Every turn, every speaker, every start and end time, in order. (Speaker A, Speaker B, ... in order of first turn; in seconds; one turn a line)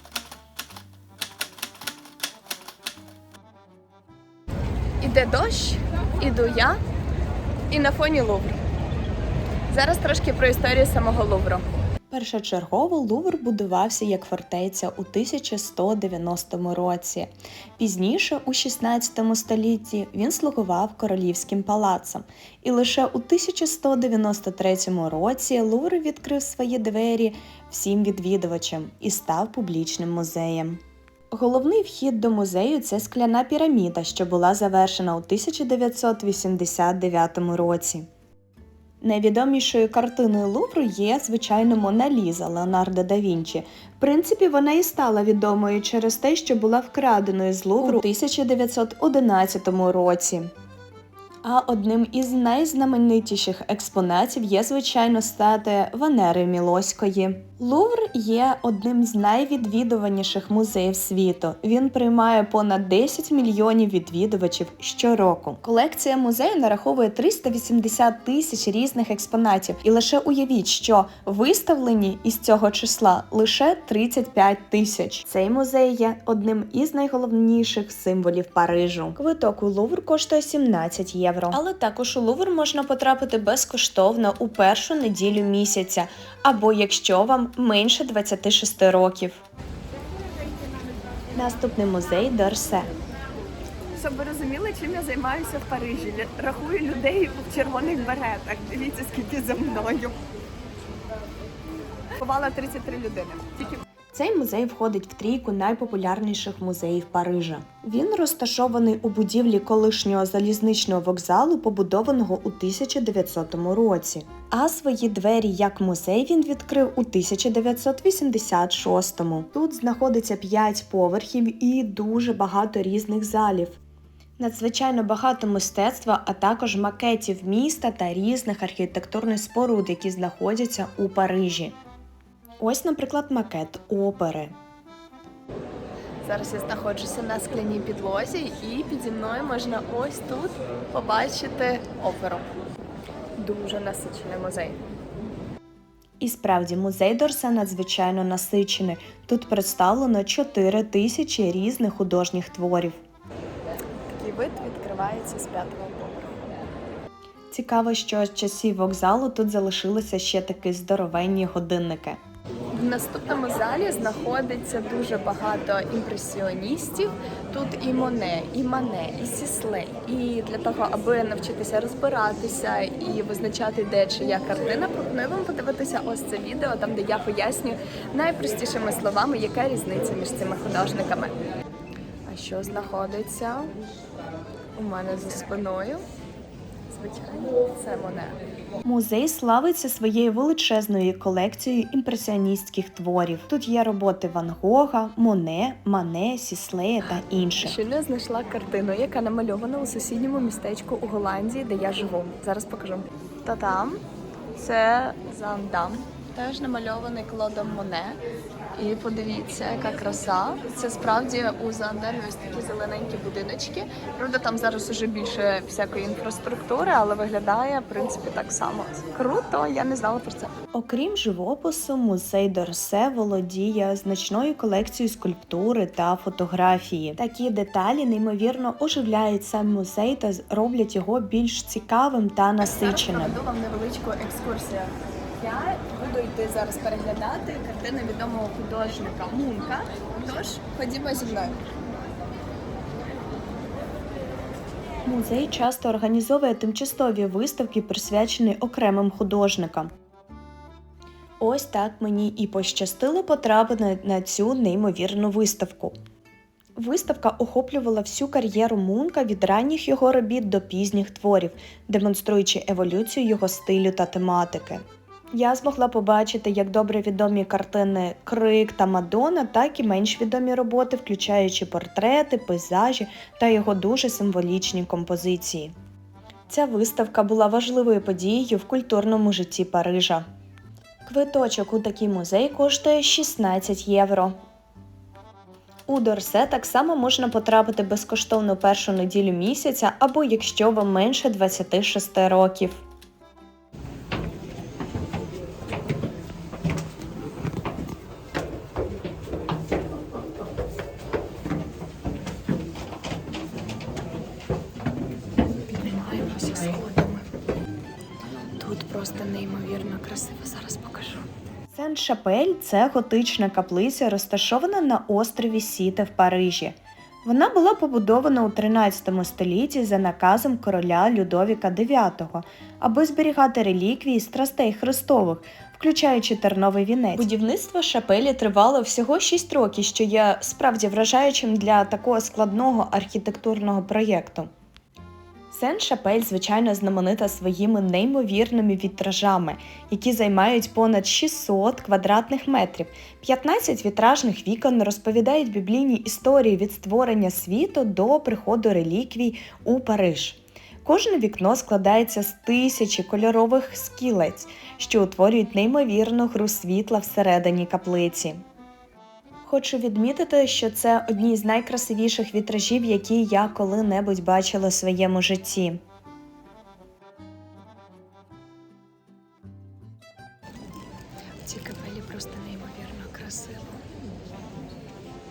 Speaker A: 5.0-6.8
Speaker A: 7.7-8.6
Speaker A: 9.7-11.7
Speaker B: 12.1-30.8
Speaker B: 31.3-38.1
Speaker B: 39.0-50.5
Speaker B: 51.4-89.4
Speaker B: 91.3-92.9
Speaker A: 94.0-100.2
Speaker A: 102.2-103.8
Speaker B: 104.1-123.8
Speaker B: 124.4-131.8
Speaker B: 132.6-134.5
Speaker A: 136.2-142.5
Speaker A: 143.4-144.8
Speaker B: 146.2-153.0
Speaker A: 154.1-156.6
Speaker B: 157.5-162.2
Speaker A: 162.7-181.4
Speaker A: 182.3-183.7
Speaker A: 184.8-186.0
Speaker A: 186.9-188.4
Speaker B: 188.8-197.8
Speaker A: 197.2-204.0
Speaker A: 204.6-208.2
Speaker A: 208.8-220.6
Speaker B: 220.7-233.4
Speaker A: 232.6-241.6
Speaker B: 245.1-249.9
Speaker B: 251.4-255.9
Speaker B: 256.8-275.7
Speaker B: 276.5-280.2
Speaker B: 281.1-284.4
Speaker B: 285.9-292.8
Speaker A: 305.7-307.3
Speaker A: 308.6-311.3
Speaker B: 311.7-334.5
Speaker B: 335.5-358.4
Speaker B: 359.4-365.8
Speaker A: 371.4-373.9